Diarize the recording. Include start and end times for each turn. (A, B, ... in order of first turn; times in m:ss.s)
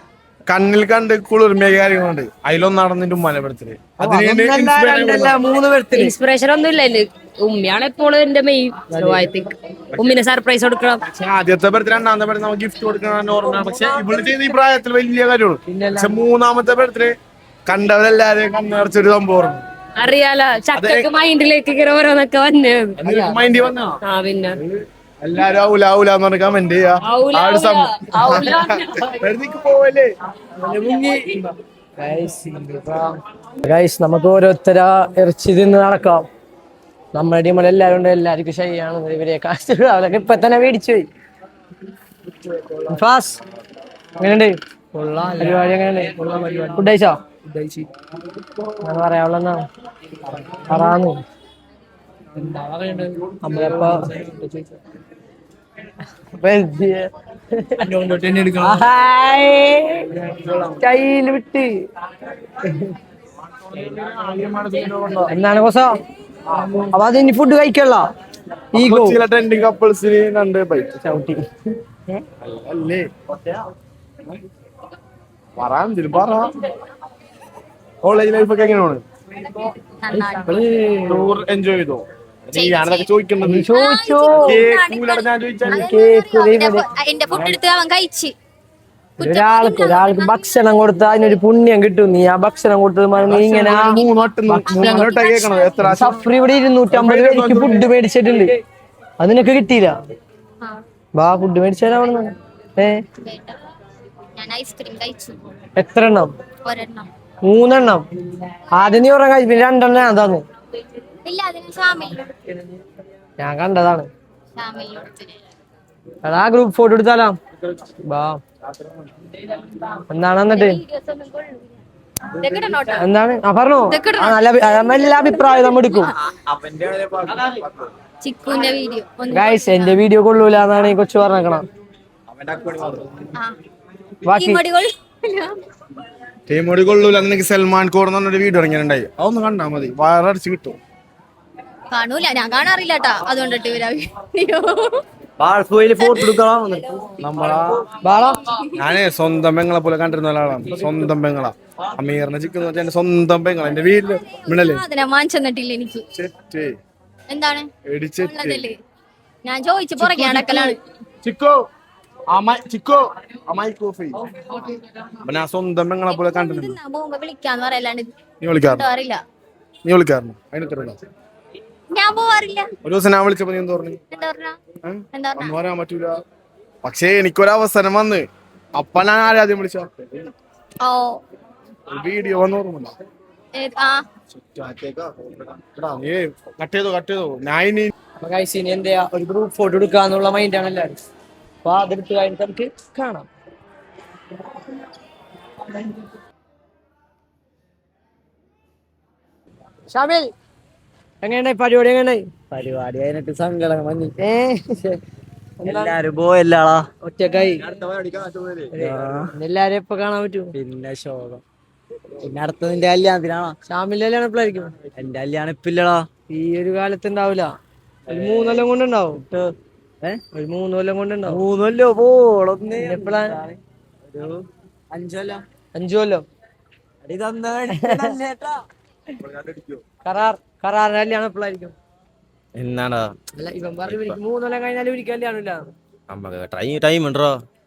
0:00.5-0:05.4 A
0:04.0-0:06.1 B
0:05.9-0:11.0 C
0:08.9-0:09.2 B
0:11.0-0:17.1 A
0:13.4-0:14.3 B
0:15.7-0:16.2 B
0:17.7-0:19.6 A
0:20.0-0:23.0 C
0:20.7-0:21.1 A
0:23.0-0:24.0 A
0:23.0-0:23.7 B
0:24.0-0:24.6 C
0:24.5-0:30.1 A
0:27.0-0:29.2 C
0:30.6-0:31.4 B
0:32.0-0:36.3 B
0:37.2-0:41.1 B
0:42.8-0:43.4 B
0:44.2-0:47.2 B
0:48.8-0:49.6 B
0:50.5-0:51.2 B
0:53.4-0:54.1 B
0:56.4-0:57.9 B
0:57.9-0:58.8 D
0:58.6-1:00.1 B
1:00.1-1:00.9 A
1:00.8-1:01.7 B
1:02.6-1:03.0 B
1:03.4-1:05.3 A
1:05.3-1:06.0 B
1:06.8-1:08.0 B
1:08.8-1:09.2 B
1:08.8-1:11.0 A
1:11.0-1:11.4 B
1:12.4-1:13.5 A
1:15.6-1:16.6 A
1:18.0-1:19.0 A
1:20.0-1:20.7 E
1:20.1-1:21.3 B
1:21.1-1:23.7 A
1:22.5-1:23.1 E
1:23.4-1:24.6 B
1:23.7-1:28.4 E
1:24.4-1:25.8 A
1:25.7-1:26.8 B
1:27.3-1:27.6 A
1:29.2-1:30.5 E
1:29.2-1:35.2 B
1:33.2-1:36.3 A
1:34.7-1:35.8 E
1:35.8-1:38.5 B
1:36.9-1:37.9 A
1:39.2-1:40.0 B
1:41.2-1:43.0 B
1:43.2-1:43.6 E
1:44.4-1:45.4 E
1:45.8-1:46.3 B
1:46.6-1:47.1 E
1:47.4-1:48.1 B
1:48.7-1:50.4 B
1:51.2-1:52.3 E
1:53.4-1:54.1 B
1:54.6-1:55.4 E
1:56.2-1:57.4 B
1:58.0-1:58.4 B
2:00.1-2:00.8 B
2:00.5-2:01.8 E
2:02.4-2:03.0 C
2:03.0-2:06.1 B
2:03.9-2:04.4 E
2:04.9-2:05.3 E
2:06.3-2:07.6 D
2:08.2-2:10.0 E
2:09.3-2:11.6 B
2:12.4-2:13.0 D
2:14.2-2:14.6 B
2:14.3-2:15.6 E
2:16.5-2:20.8 A
2:21.9-2:25.0 E
2:25.4-2:27.6 D
2:26.0-2:26.4 E
2:27.2-2:27.8 A
2:28.0-2:28.5 B
2:28.8-2:34.9 A
2:34.1-2:36.0 E
2:36.1-2:36.8 A
2:37.3-2:37.7 E
2:37.8-2:38.7 A
2:38.2-2:38.8 E
2:39.4-2:40.8 E
2:40.0-2:41.7 A
2:42.3-2:44.6 A
2:45.2-2:46.8 A
2:46.1-2:48.1 E
2:48.4-2:48.9 A
2:48.6-2:49.2 E
2:49.9-2:51.0 A
2:51.9-2:52.7 E
2:52.8-2:54.0 A
2:54.1-2:54.6 E
2:54.8-2:56.2 A
2:55.1-2:55.5 E
2:56.8-2:58.2 A
2:58.8-3:00.3 A
3:00.8-3:01.2 E
3:01.9-3:03.0 A
3:03.6-3:04.1 E
3:04.3-3:07.9 A
3:08.2-3:11.0 B
3:11.6-3:13.3 B
3:19.9-3:20.3 B
3:21.2-3:22.3 B
3:22.5-3:24.2 D
3:24.2-3:25.0 B
3:25.6-3:26.0 B
3:25.6-3:26.9 D
3:27.0-3:27.7 B
3:27.6-3:29.3 D
3:28.7-3:30.6 B
3:30.5-3:31.4 D
3:32.2-3:33.6 D
3:33.7-3:34.7 B
3:35.0-3:36.1 D
3:36.3-3:37.5 B
3:38.1-3:39.2 B
3:38.1-3:40.2 D
3:40.3-3:41.4 B
3:41.3-3:45.4 D
3:42.8-3:43.4 B
3:45.8-3:46.3 B
3:47.0-3:48.6 D
3:47.7-3:48.2 B
3:49.2-3:49.8 D
3:50.0-3:51.8 B
3:52.6-3:53.1 F
3:53.4-3:55.7 B
3:53.9-3:54.2 F
3:56.1-3:57.4 F